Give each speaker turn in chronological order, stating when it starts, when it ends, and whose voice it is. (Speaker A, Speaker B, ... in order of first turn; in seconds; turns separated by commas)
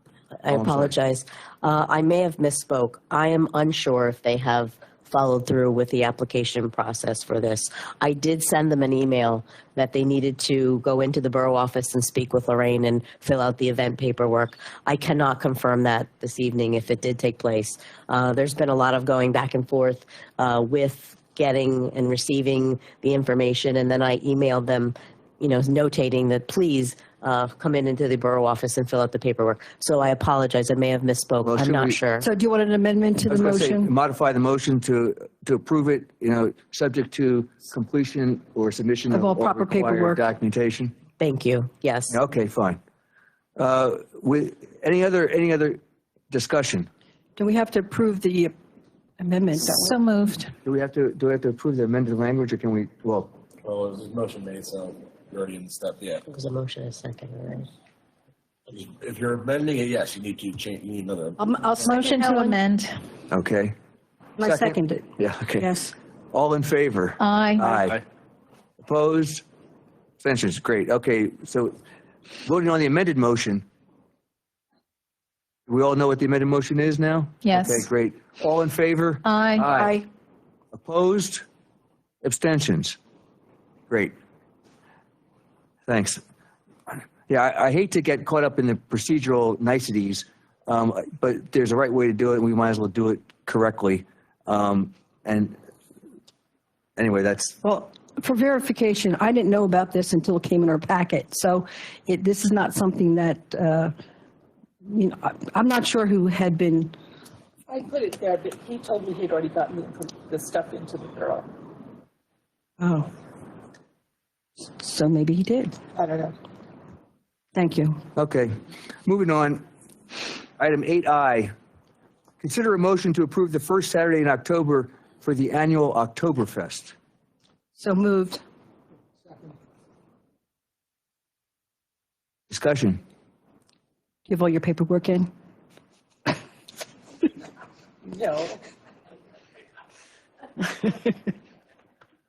Speaker A: 0.4-32.3, Speaker B: 0.5-0.9, Speaker B: 31.4-32.0, Speaker C: 32.2-33.9, Speaker B: 33.3-40.9, Speaker C: 39.1-40.2, Speaker A: 41.2-42.1, Speaker B: 42.1-42.8, Speaker B: 43.6-45.8, Speaker B: 46.3-46.9, Speaker C: 47.4-48.5, Speaker C: 49.2-50.0, Speaker D: 49.8-50.5, Speaker B: 50.6-53.3, Speaker E: 53.6-56.2, Speaker A: 56.3-57.7, Speaker E: 58.7-61.5, Speaker C: 61.4-62.6, Speaker D: 61.8-63.0, Speaker B: 63.3-63.7, Speaker C: 64.4-65.9, Speaker B: 64.4-65.7, Speaker B: 66.3-68.0, Speaker D: 67.2-67.6, Speaker E: 67.7-68.0, Speaker B: 68.8-69.4, Speaker B: 70.2-71.8, Speaker B: 72.5-73.6, Speaker B: 75.7-80.0, Speaker D: 77.4-77.8, Speaker D: 79.2-80.0, Speaker B: 80.7-81.4, Speaker B: 82.2-83.0, Speaker B: 85.9-86.2, Speaker B: 86.9-95.6, Speaker B: 97.0-97.5, Speaker C: 97.6-103.9, Speaker C: 104.8-107.0, Speaker F: 107.7-111.5, Speaker C: 112.8-113.1, Speaker C: 114.8-115.7, Speaker F: 115.9-116.3, Speaker C: 117.5-118.0, Speaker B: 118.2-119.7, Speaker B: 120.6-121.5, Speaker B: 122.4-126.9, Speaker C: 127.8-128.4, Speaker B: 132.5-133.0, Speaker C: 134.3-135.3, Speaker F: 138.1-138.6